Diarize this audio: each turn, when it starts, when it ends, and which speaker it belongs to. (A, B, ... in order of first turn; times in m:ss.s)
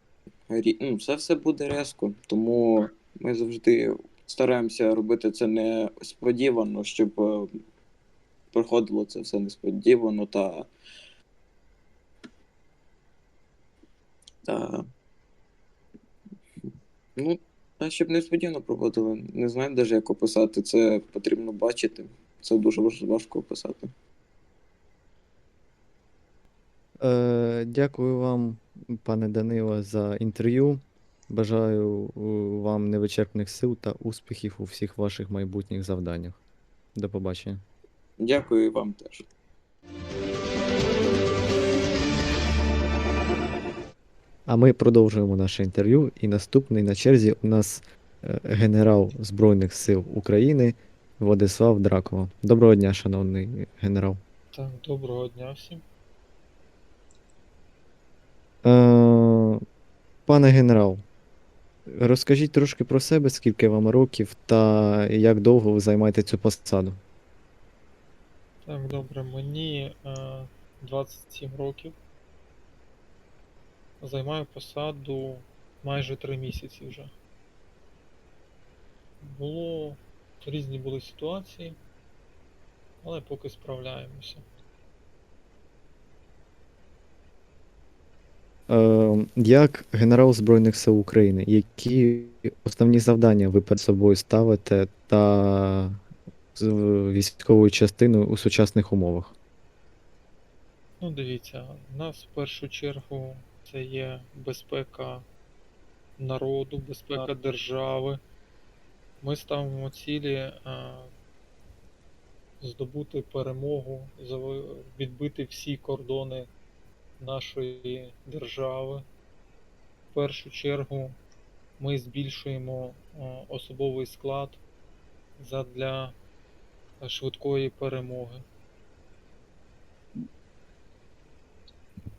0:00.5-0:07.4 A
0:08.5-0:10.7 A
0:14.5-0:14.8 A
0:17.2-0:23.9 A
0:27.0-0:36.4 B
0:37.0-0:37.6 B
0:38.2-0:39.2 A
0:44.5-0:54.2 B
0:54.5-0:55.8 C
0:58.6-0:59.6 B
1:00.3-1:01.0 B
1:01.9-1:07.0 B
1:08.6-1:12.0 C
1:14.0-1:17.1 C
1:19.2-1:21.8 C
1:23.0-1:24.4 C
1:28.7-1:36.0 B
1:36.6-1:39.3 B
1:41.0-1:45.3 C
1:46.2-1:48.2 C
1:49.2-1:51.1 C
1:52.6-1:56.5 C
1:57.2-1:59.0 C
2:00.1-2:01.2 C
2:01.8-2:04.6 C
2:05.4-2:06.2 C
2:07.0-2:08.4 C